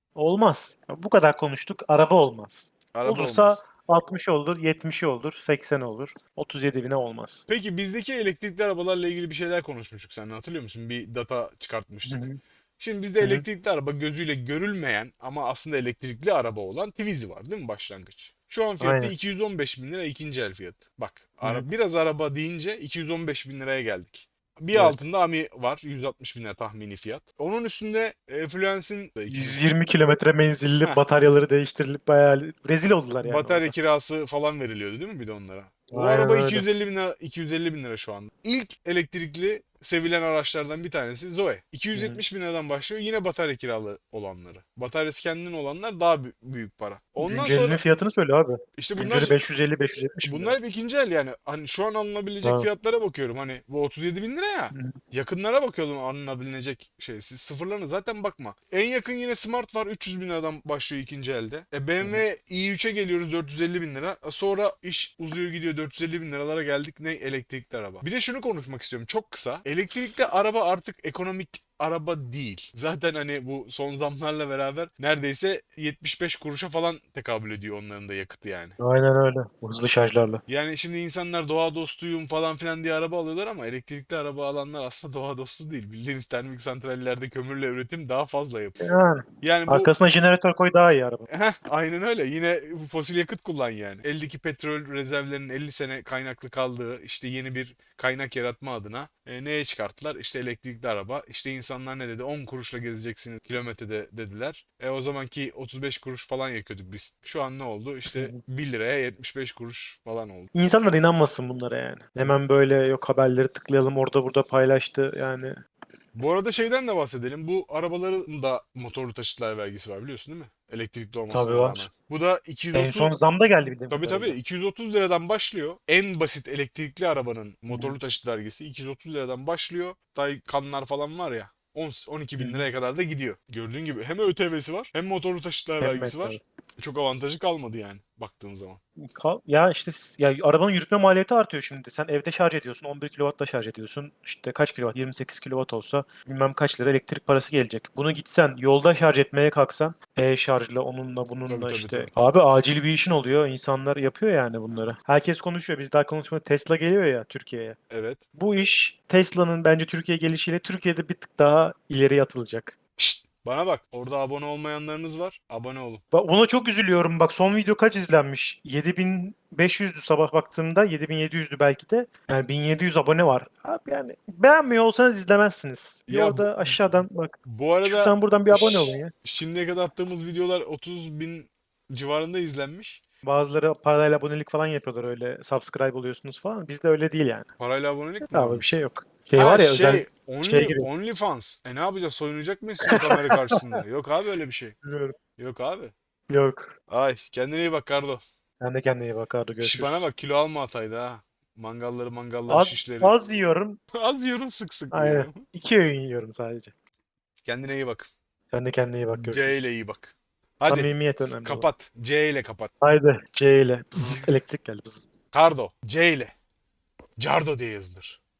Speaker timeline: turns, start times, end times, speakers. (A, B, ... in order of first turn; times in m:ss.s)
0:00.2-0:07.4 A
0:02.9-0:03.6 B
0:07.5-0:12.2 B
0:12.0-0:12.4 A
0:12.8-0:29.6 B
0:13.2-0:13.4 A
0:18.8-0:19.1 A
0:24.7-0:25.0 A
0:29.3-0:33.7 A
0:33.2-0:47.8 B
0:35.9-0:36.6 A
0:41.9-0:42.2 A
0:47.2-0:50.5 A
0:48.8-0:49.4 B
0:50.2-1:18.8 B
0:52.4-0:52.7 A
1:18.8-1:20.4 A
1:20.5-1:28.8 B
1:28.8-1:31.3 A
1:29.4-1:29.9 B
1:31.3-1:50.5 B
1:48.1-1:48.4 A
1:50.5-1:55.6 A
1:56.1-2:03.1 B
2:01.3-2:01.9 A
2:02.7-2:04.4 A
2:03.9-2:18.8 B
2:07.7-2:08.0 A
2:12.4-2:12.6 A
2:15.8-2:16.4 A
2:19.1-2:37.8 A
2:31.4-2:32.1 B
2:37.9-2:38.2 B
2:38.3-2:42.7 A
2:43.0-2:46.0 B
2:46.1-2:59.1 A
2:56.1-3:03.0 B
3:03.2-3:07.5 A
3:07.6-3:08.7 B
3:08.2-3:10.9 A
3:09.4-3:14.8 B
3:12.9-3:13.8 A
3:14.8-3:15.2 A
3:15.4-3:15.9 B
3:16.3-3:16.7 A
3:16.9-3:18.2 B
3:18.6-3:20.1 A
3:19.6-3:23.1 B
3:22.5-3:23.8 A
3:23.9-3:25.4 B
3:24.9-3:26.7 A
3:27.4-3:28.1 B
3:28.5-3:29.6 A
3:29.1-3:30.9 B
3:30.7-3:31.6 A
3:31.4-3:32.7 B
3:32.8-3:35.1 A
3:34.0-3:34.3 B
3:35.3-3:36.3 B
3:37.2-3:38.2 B